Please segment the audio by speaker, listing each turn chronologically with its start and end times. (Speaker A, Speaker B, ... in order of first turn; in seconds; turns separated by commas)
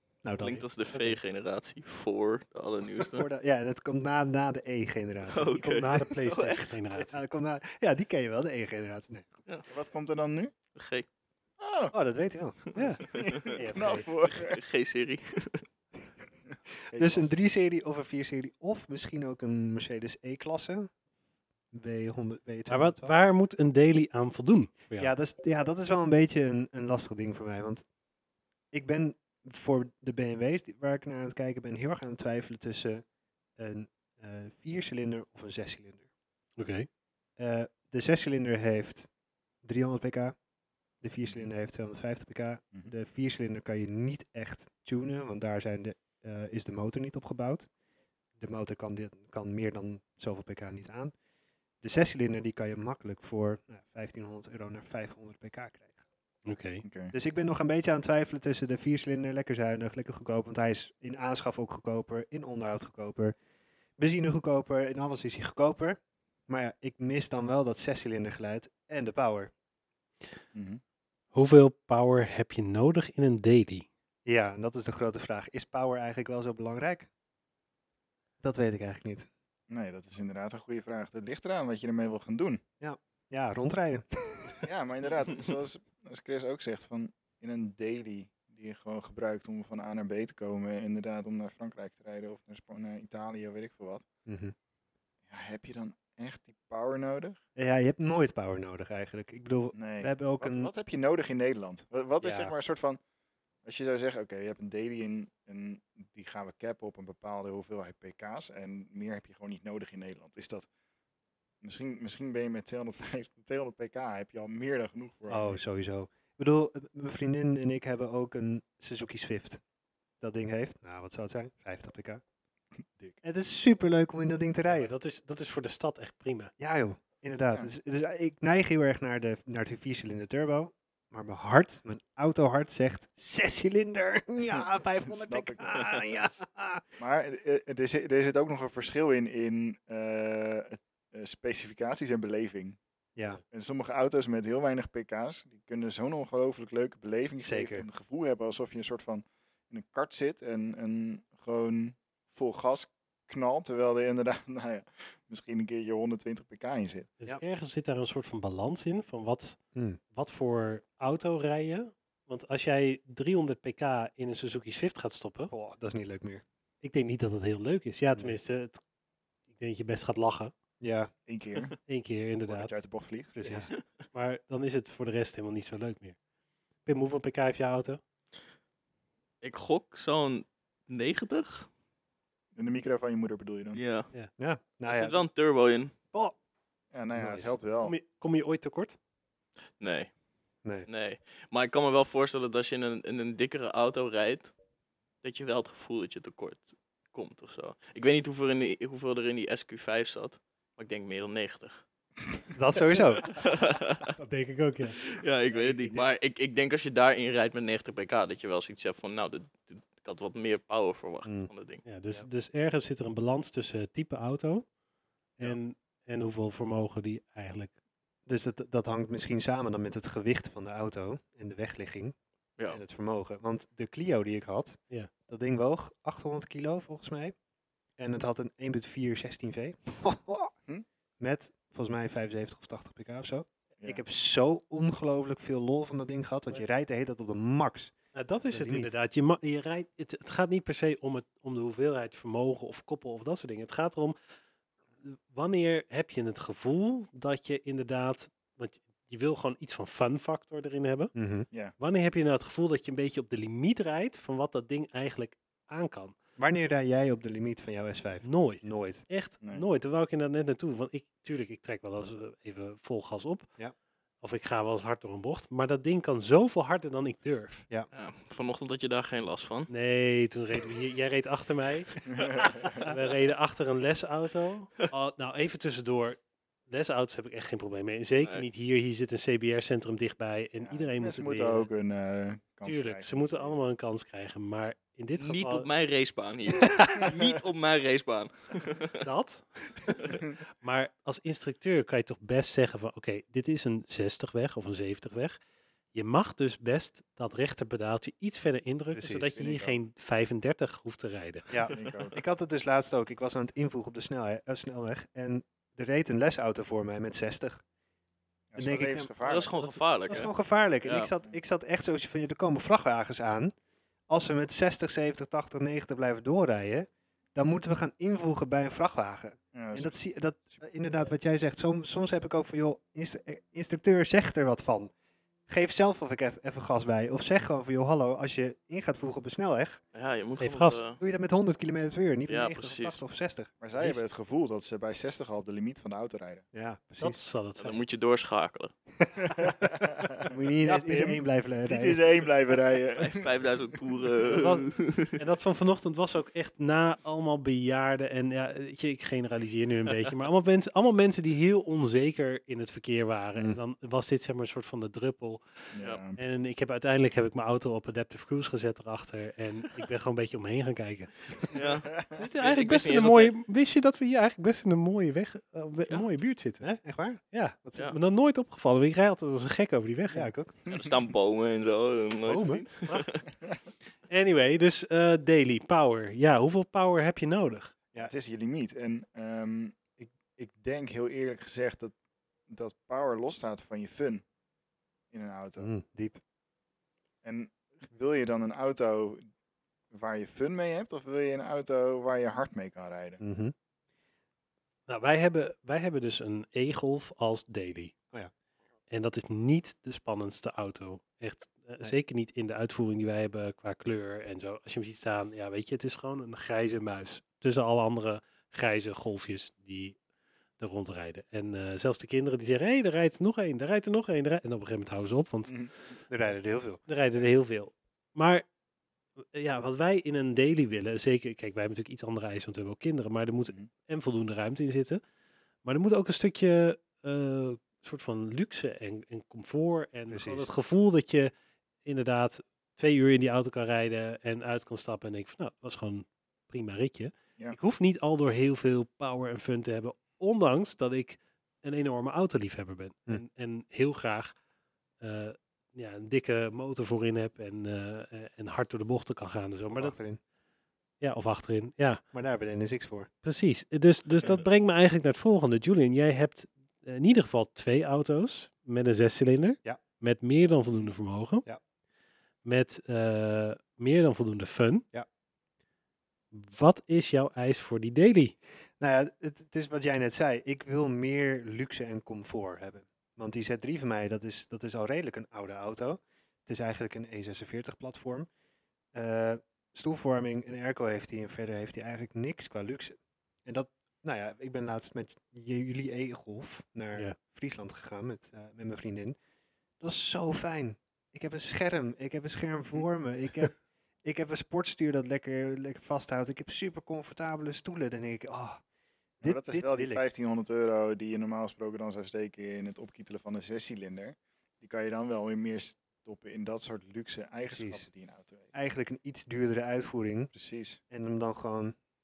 Speaker A: 0.2-0.6, Speaker B: 0.4-3.3, Speaker C: 0.5-1.2, Speaker A: 3.0-5.9, Speaker B: 5.2-6.8, Speaker C: 5.6-7.2, Speaker A: 7.0-9.3, Speaker D: 9.7-10.5, Speaker B: 10.7-11.1, Speaker D: 11.6-11.9, Speaker A: 11.9-14.1, Speaker D: 13.1-14.6, Speaker B: 14.2-15.7, Speaker D: 16.9-17.3, Speaker A: 16.9-20.9, Speaker A: 21.7-23.1, Speaker C: 22.7-25.1, Speaker A: 25.0-27.8, Speaker A: 28.7-33.0, Speaker A: 33.6-36.1, Speaker C: 36.6-36.9, Speaker A: 37.4-39.1, Speaker A: 39.6-40.4, Speaker A: 41.0-47.7, Speaker A: 48.4-51.1, Speaker A: 51.8-56.0, Speaker C: 56.5-56.8, Speaker D: 56.8-57.1, Speaker A: 57.1-63.3, Speaker A: 64.0-69.5, Speaker D: 70.5-70.8, Speaker C: 71.3-73.8, Speaker A: 74.2-77.1, Speaker A: 78.4-79.3, Speaker D: 79.7-82.6, Speaker A: 82.8-84.7, Speaker D: 84.6-94.0, Speaker A: 94.2-94.5, Speaker D: 95.3-97.4, Speaker A: 97.5-100.7, Speaker D: 99.7-103.0, Speaker A: 102.2-102.5, Speaker D: 103.6-110.7, Speaker D: 111.6-115.6, Speaker A: 115.3-119.6, Speaker A: 120.2-122.2, Speaker A: 123.2-124.9, Speaker C: 124.7-126.5, Speaker A: 126.6-136.8, Speaker D: 135.1-135.9, Speaker D: 137.0-142.8, Speaker A: 143.2-143.4, Speaker D: 143.5-157.1, Speaker A: 147.4-147.8, Speaker C: 157.2-159.6, Speaker A: 159.7-160.0, Speaker C: 160.1-165.5, Speaker A: 165.5-166.4, Speaker C: 166.8-168.8, Speaker C: 169.5-170.5, Speaker A: 170.8-171.1, Speaker D: 171.3-171.8, Speaker C: 171.9-172.8, Speaker D: 172.5-173.3, Speaker A: 173.3-173.7, Speaker C: 173.4-176.2, Speaker C: 176.8-178.0, Speaker B: 179.4-181.7, Speaker D: 182.5-183.8, Speaker B: 183.7-184.1, Speaker A: 184.4-185.2, Speaker B: 184.8-185.9, Speaker D: 186.9-187.9, Speaker A: 187.1-187.6, Speaker C: 187.8-188.9, Speaker B: 189.8-190.1, Speaker B: 190.8-194.5, Speaker B: 195.2-201.8, Speaker A: 202.5-203.3, Speaker B: 203.3-204.1, Speaker C: 204.2-205.0, Speaker B: 205.0-211.8, Speaker C: 205.6-206.0, Speaker A: 211.2-211.5, Speaker C: 211.8-214.7, Speaker C: 215.4-217.7, Speaker A: 218.3-222.1, Speaker A: 222.7-227.3, Speaker A: 228.0-230.5, Speaker A: 231.2-237.9, Speaker C: 238.1-244.2, Speaker A: 238.5-238.9, Speaker C: 245.0-251.1, Speaker A: 251.1-251.5, Speaker C: 251.8-256.1, Speaker A: 256.4-259.0, Speaker C: 258.2-263.5, Speaker C: 264.2-267.6, Speaker B: 267.9-269.7, Speaker C: 269.7-281.7, Speaker D: 272.1-272.9, Speaker D: 280.6-283.6, Speaker C: 282.6-285.7, Speaker B: 285.2-288.9, Speaker C: 289.0-295.4, Speaker C: 295.9-301.7, Speaker A: 298.9-299.4, Speaker D: 299.3-299.8, Speaker A: 301.5-307.6, Speaker D: 301.7-302.2, Speaker D: 308.5-309.6, Speaker A: 308.6-309.1, Speaker B: 309.2-310.3, Speaker A: 310.1-313.5, Speaker B: 310.8-311.1, Speaker A: 314.1-324.9, Speaker D: 319.5-319.9, Speaker A: 325.5-329.8, Speaker B: 329.9-331.0, Speaker C: 330.4-330.8, Speaker A: 331.0-333.6, Speaker B: 332.3-333.0, Speaker D: 333.6-336.4, Speaker A: 336.5-337.2, Speaker C: 337.0-337.8, Speaker B: 337.6-338.7, Speaker A: 339.0-339.5, Speaker D: 339.2-343.2, Speaker A: 340.2-342.1, Speaker B: 342.9-345.2, Speaker C: 344.2-355.4, Speaker D: 355.7-356.2, Speaker C: 356.2-366.6, Speaker B: 361.5-363.3, Speaker A: 366.6-367.9, Speaker C: 367.3-370.3, Speaker A: 370.1-370.5, Speaker B: 370.6-373.2, Speaker A: 372.2-372.6, Speaker C: 374.1-377.7, Speaker D: 378.0-381.9, Speaker D: 382.5-384.2, Speaker D: 385.1-385.7, Speaker A: 385.6-386.2, Speaker D: 387.2-389.2, Speaker D: 389.9-393.2, Speaker A: 393.2-393.5, Speaker C: 394.9-397.9, Speaker C: 398.9-410.0, Speaker C: 410.6-415.6, Speaker D: 415.5-415.7, Speaker A: 416.1-416.8, Speaker C: 416.9-418.4, Speaker C: 419.3-425.0, Speaker C: 425.6-431.3, Speaker A: 430.1-430.5, Speaker C: 431.8-444.3, Speaker C: 445.0-449.9, Speaker A: 449.7-450.2, Speaker C: 451.0-452.0, Speaker A: 452.1-453.1, Speaker C: 453.2-461.4, Speaker C: 462.4-464.9, Speaker C: 466.3-468.3, Speaker A: 468.8-478.3, Speaker A: 478.9-489.2, Speaker A: 489.8-498.6, Speaker A: 499.2-500.0, Speaker D: 499.2-508.5, Speaker A: 507.4-507.9, Speaker A: 508.5-510.3, Speaker D: 510.3-510.8, Speaker A: 510.9-511.8